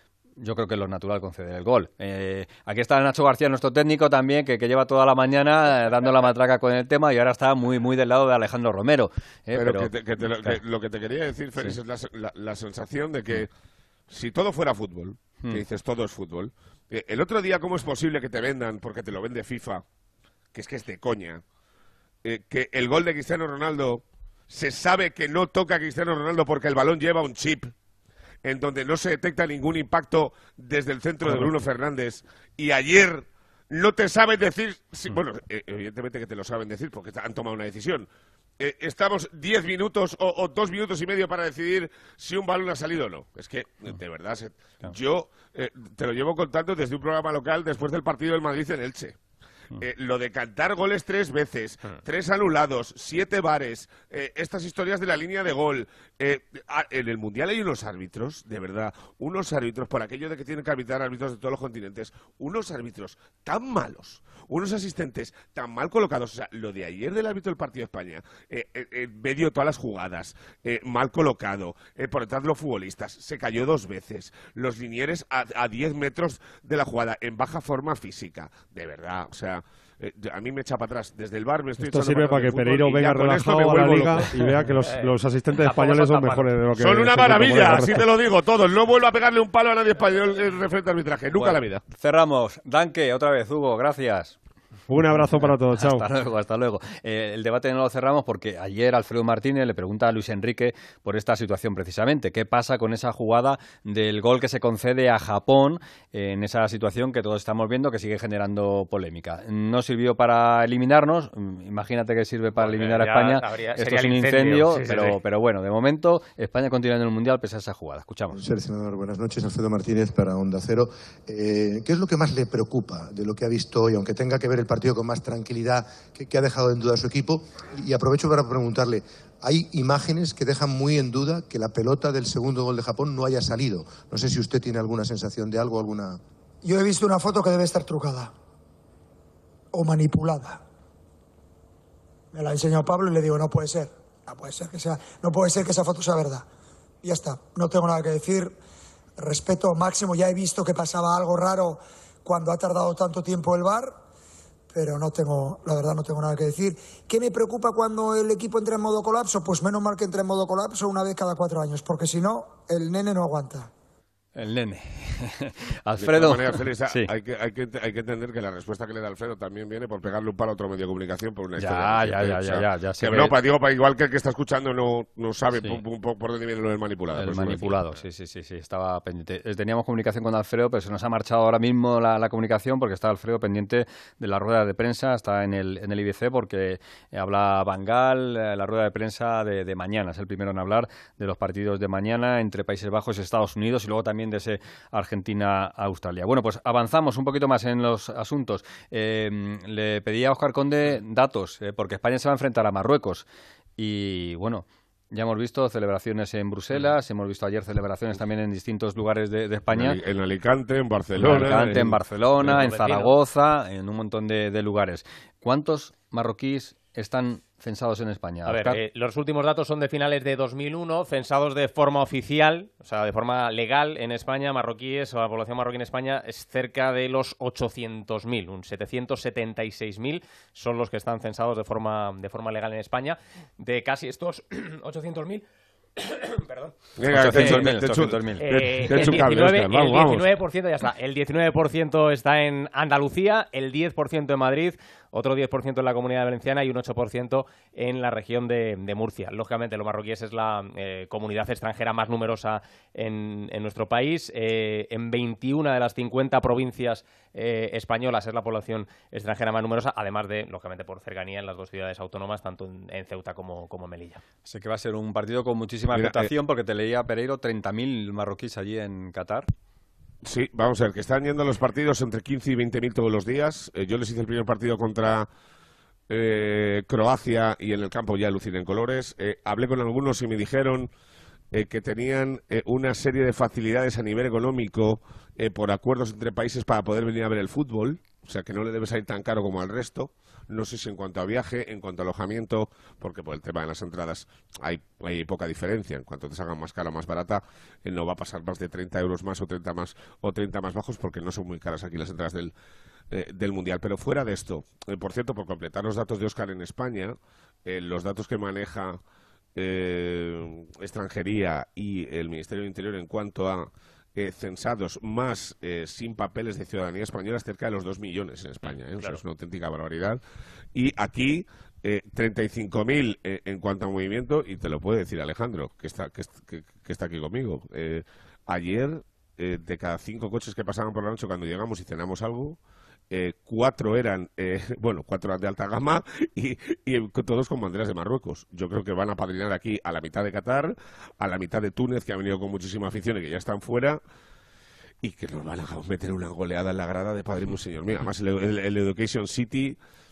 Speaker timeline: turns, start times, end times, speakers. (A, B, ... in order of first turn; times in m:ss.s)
0:00.4-0:10.6 A
0:09.5-0:13.5 B
0:14.1-0:19.8 B
0:20.5-0:21.4 B
0:22.2-0:27.7 B
0:28.4-0:38.1 B
0:38.6-0:49.2 B
0:49.8-1:24.2 B
1:21.8-1:28.0 C
1:24.8-1:26.7 D
1:26.8-1:31.8 B
1:31.3-1:34.4 A
1:34.9-1:36.0 C
1:35.3-1:58.4 A
1:52.6-1:55.2 D
1:58.3-2:16.2 E
2:16.6-2:18.3 F
2:19.7-2:20.6 F
2:22.3-2:26.4 F
2:27.0-2:28.5 F
2:29.2-2:34.0 F
2:34.7-2:43.7 F
2:44.4-2:47.1 A
2:46.0-2:57.8 B
2:51.6-2:53.4 A
2:55.5-2:55.8 A
2:57.1-3:23.2 A
3:23.8-3:30.0 A
3:29.7-3:32.0 B
3:31.2-3:38.8 A
3:32.4-3:33.1 D
3:38.5-3:55.4 D
3:56.0-3:57.7 D
3:57.0-4:00.2 B
3:57.1-3:59.2 A
3:58.4-4:24.2 D
4:24.4-4:29.5 A
4:25.9-4:26.3 B
4:30.2-4:35.3 B
4:36.1-4:40.9 B
4:41.5-5:02.5 B
5:03.1-5:09.0 B
5:09.6-5:20.2 B
5:18.6-5:19.2 D
5:20.7-5:32.6 B
5:33.1-5:44.0 B
5:45.0-5:49.8 B